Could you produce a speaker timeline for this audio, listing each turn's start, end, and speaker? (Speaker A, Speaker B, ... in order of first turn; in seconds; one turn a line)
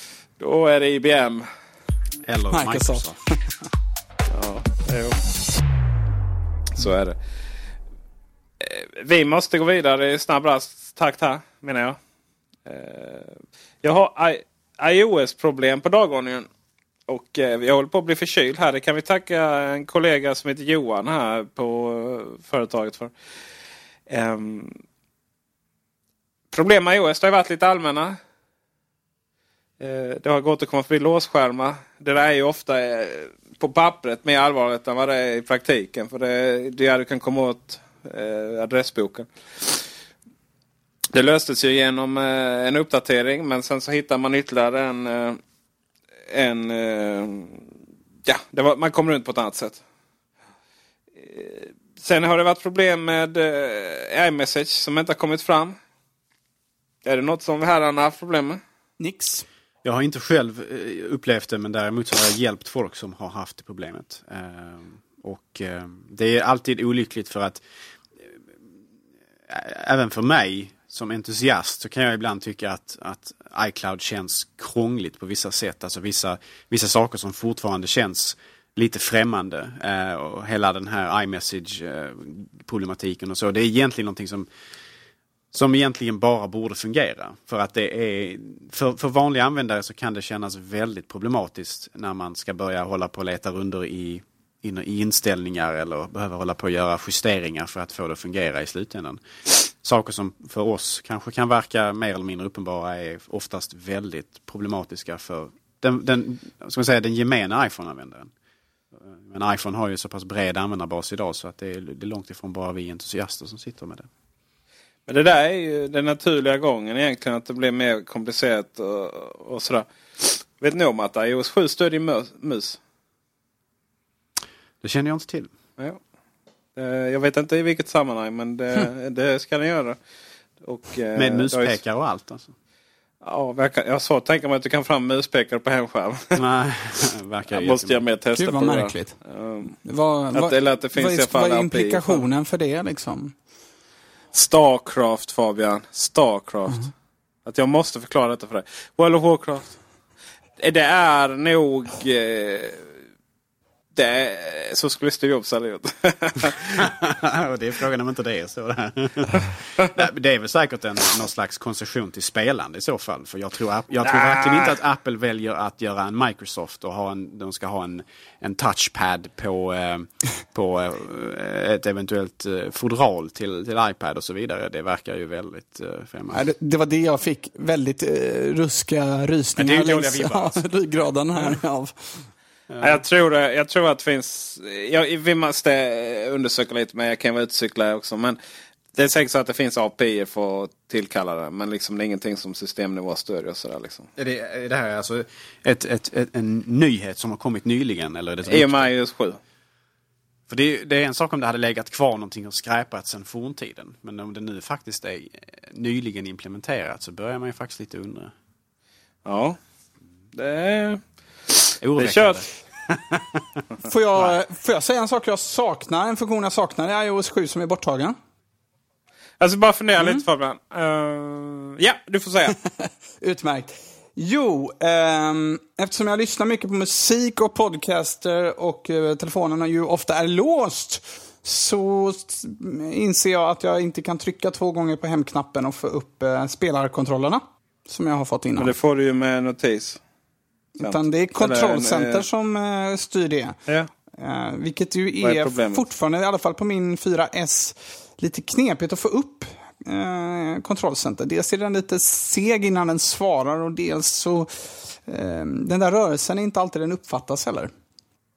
Speaker A: 0.4-1.5
Speaker B: 2.2-3.2
Speaker C: 2.5-3.1
Speaker A: 4.3-5.2
Speaker A: 6.8-7.2
Speaker A: 8.6-12.0
Speaker A: 12.7-16.5
Speaker A: 17.1-23.1
Speaker A: 24.1-24.7
Speaker A: 26.5-28.2
Speaker A: 29.8-39.8
Speaker A: 41.1-45.4
Speaker A: 46.3-47.6
Speaker A: 48.2-49.8
Speaker A: 51.2-55.7
Speaker A: 57.0-58.6
Speaker C: 59.0-59.5
Speaker B: 59.8-67.6
Speaker B: 69.5-84.5
Speaker B: 85.5-108.3
Speaker B: 109.0-114.1
Speaker A: 115.1-122.8
Speaker B: 124.8-125.5
Speaker A: 126.8-130.0
Speaker A: 130.6-131.8
Speaker B: 131.2-132.5
Speaker A: 133.2-136.4
Speaker B: 136.3-138.0
Speaker A: 137.5-139.8
Speaker C: 138.4-139.1
Speaker C: 139.8-143.3
Speaker A: 140.3-142.2
Speaker A: 144.3-146.9
Speaker A: 147.4-149.7
Speaker A: 150.6-152.8
Speaker A: 153.9-156.9
Speaker B: 156.8-176.4
Speaker A: 164.0-164.8
Speaker C: 176.3-182.2
Speaker B: 179.6-180.6
Speaker B: 182.7-183.0
Speaker A: 182.8-188.4
Speaker A: 188.9-194.1
Speaker B: 194.2-198.9
Speaker A: 198.4-199.4
Speaker B: 200.5-208.3
Speaker A: 209.2-209.6
Speaker A: 210.3-212.4
Speaker B: 211.8-213.4
Speaker C: 213.8-218.2
Speaker A: 219.4-222.6
Speaker C: 222.8-238.7
Speaker A: 238.6-240.0
Speaker C: 240.8-243.6
Speaker A: 240.8-242.2
Speaker C: 244.2-254.5
Speaker A: 245.2-245.8
Speaker C: 255.1-257.7